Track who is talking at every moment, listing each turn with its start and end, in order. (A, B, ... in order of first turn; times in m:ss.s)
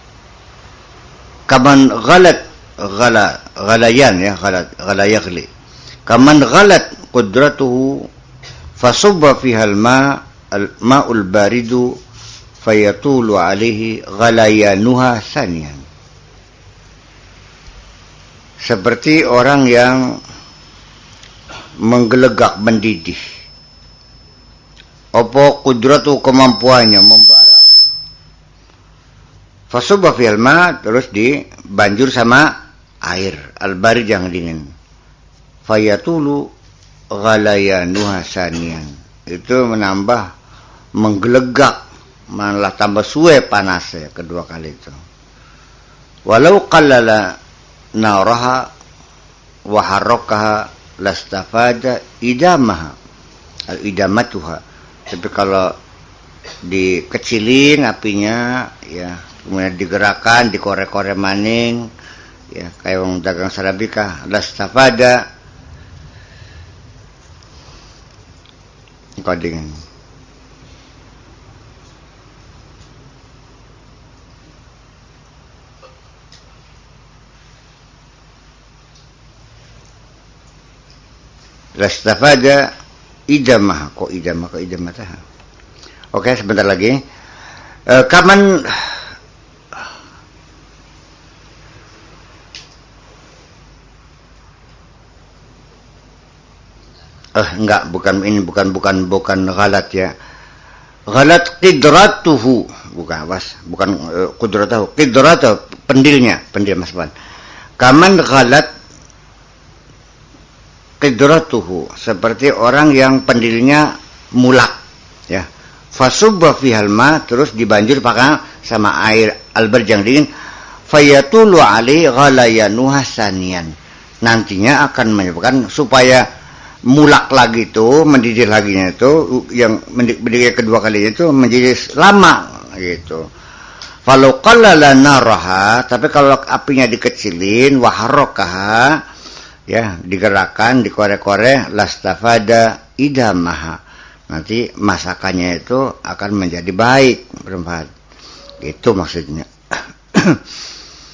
0:01.5-0:05.5 A
0:06.1-0:08.1 A
0:08.8-0:12.0 A
0:12.6-0:15.8 A
0:18.6-0:20.2 A
0:21.8-0:23.2 A
0:25.2-0:27.6 A
0:29.7-0:32.5 A
0:33.0-0:34.6 A
0:35.7-0:36.5 A
0:37.1-0:40.2 A
0:41.0-0:41.8 A
0:42.3-0:45.0 A
0:46.3-0:47.4 A
0:48.0-0:48.7 A
0:49.7-0:53.0 A
0:53.7-0:55.8 A
0:56.6-1:01.9 A
1:02.5-1:05.2 A
1:09.2-1:09.8 A
1:21.8-1:22.7 A
1:23.3-1:25.2 A
1:26.1-1:27.0 A
1:27.9-1:29.0 A
1:37.4-1:40.1 A
1:41.1-1:47.1 A
1:47.8-1:48.7 A
1:51.0-1:54.8 A
1:55.3-2:00.3 A
2:00.9-2:06.2 A
2:06.9-2:13.2 A
2:14.0-2:19.0 A
2:19.7-2:23.8 A
2:24.3-2:27.9 A
2:28.6-2:29.5 A
2:30.1-2:30.4 A